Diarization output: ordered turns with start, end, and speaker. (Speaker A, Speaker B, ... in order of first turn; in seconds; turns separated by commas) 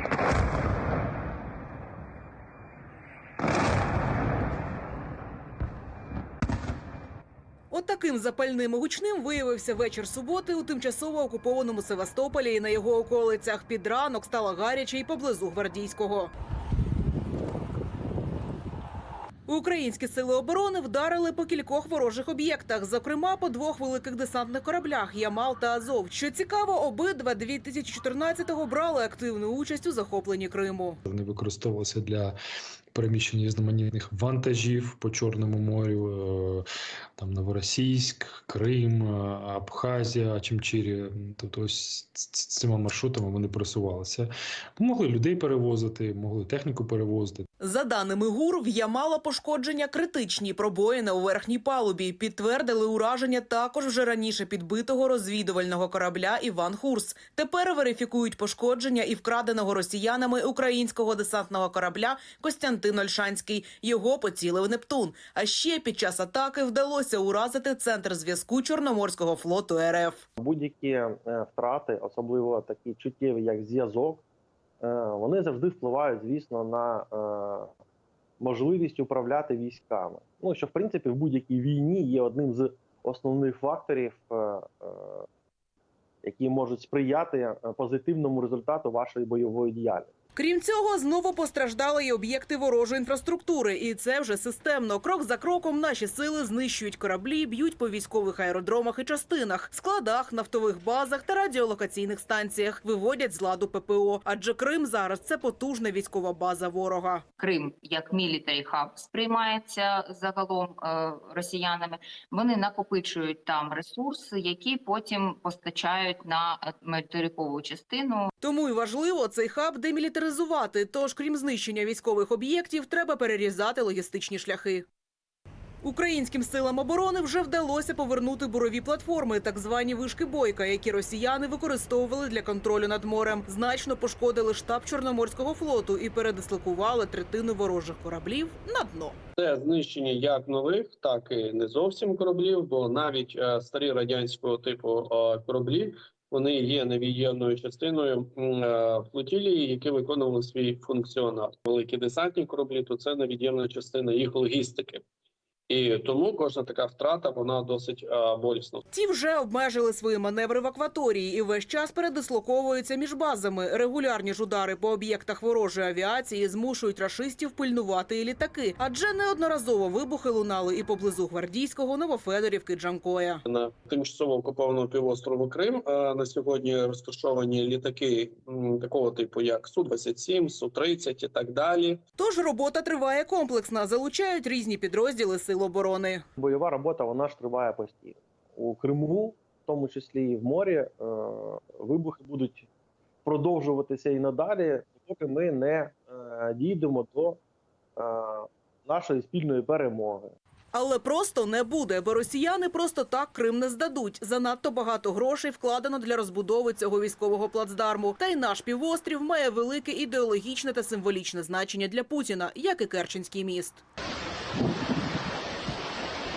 Speaker A: 7.7-16.3, Speaker A: 19.5-31.0, Speaker B: 31.1-32.3, Speaker B: 32.9-36.6, Speaker B: 37.2-47.5, Speaker A: 47.6-70.2, Speaker C: 70.4-74.2, Speaker C: 74.8-77.7, Speaker C: 78.4-85.2, Speaker C: 86.2-90.1, Speaker A: 90.3-107.2, Speaker D: 107.4-118.3, Speaker A: 118.4-124.9, Speaker A: 125.8-139.2, Speaker E: 139.4-155.1, Speaker E: 155.7-158.8, Speaker A: 158.9-173.4, Speaker E: 173.5-182.0, Speaker A: 182.2-186.2, Speaker C: 186.4-192.7, Speaker C: 193.2-197.4, Speaker C: 198.0-200.3, Speaker A: 200.7-213.8